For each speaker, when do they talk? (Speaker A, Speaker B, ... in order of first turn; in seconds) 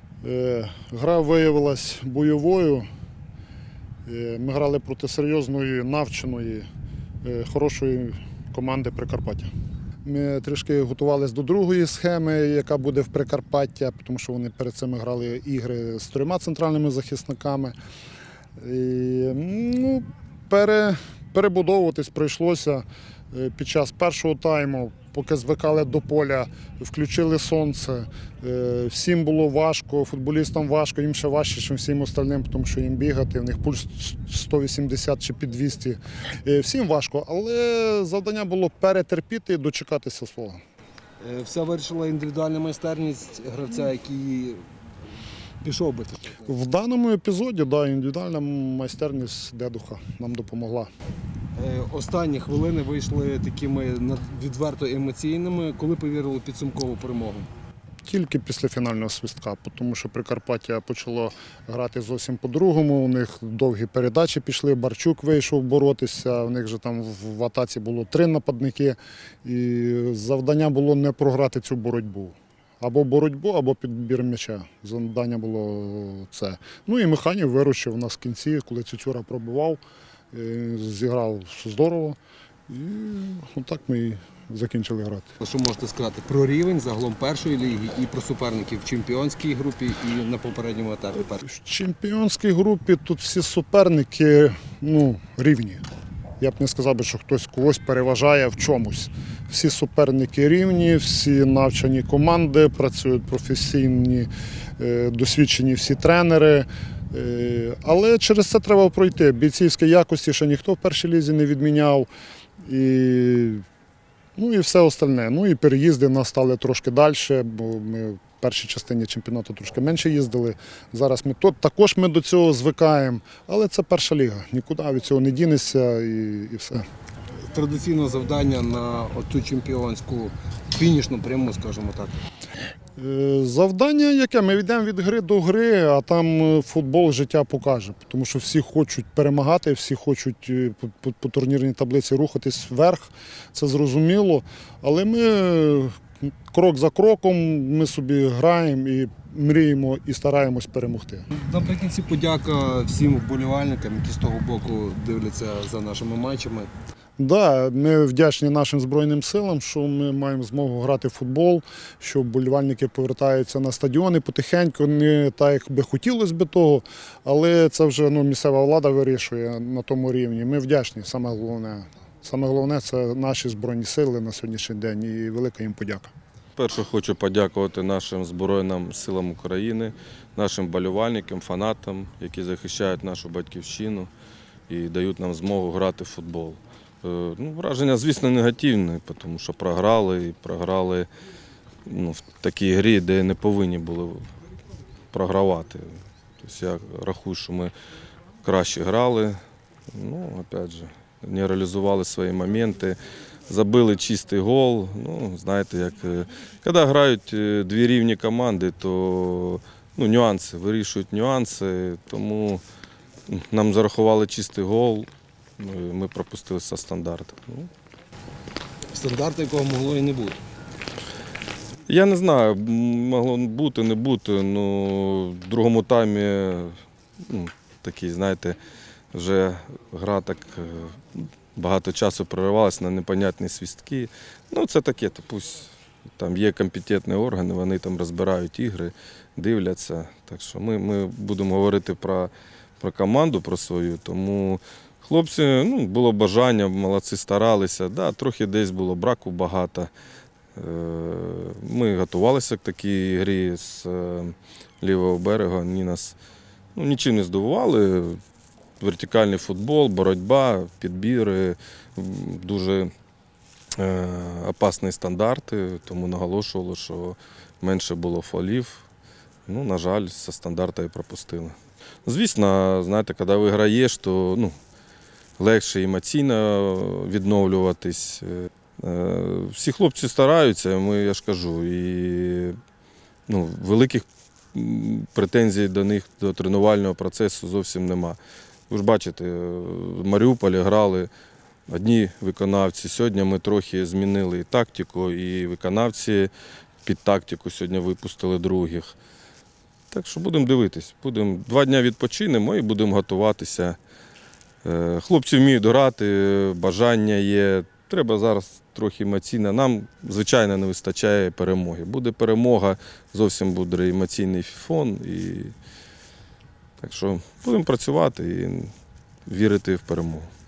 Speaker A: 0.2-2.9, 4.1-6.7, 7.2-9.5, 10.0-17.8, 18.6-40.6, 46.5-50.9, 58.1-79.8, 80.3-82.2, 82.7-85.3, 91.5-95.8, 96.4-112.1, 112.6-113.6, 114.4-126.8, 133.0-151.3, 157.2-176.1
Speaker B: 41.2-44.6, 45.6-46.5, 51.5-57.5, 85.4-91.4, 127.5-132.2, 151.3-156.7, 218.9-220.4
Speaker C: 176.6-184.1, 184.7-191.1, 191.8-194.3, 195.1-197.7, 198.4-199.4, 199.9-212.6, 213.3-217.7, 221.9-226.8, 227.3-228.6, 229.1-249.9, 250.6-256.2, 256.8-258.2, 258.8-262.9, 263.8-268.9, 269.5-274.6, 275.4-282.6, 283.3-288.2, 288.7-291.1, 291.7-296.3, 296.8-298.9, 299.9-303.8, 304.6-315.6, 316.8-318.7, 319.3-320.3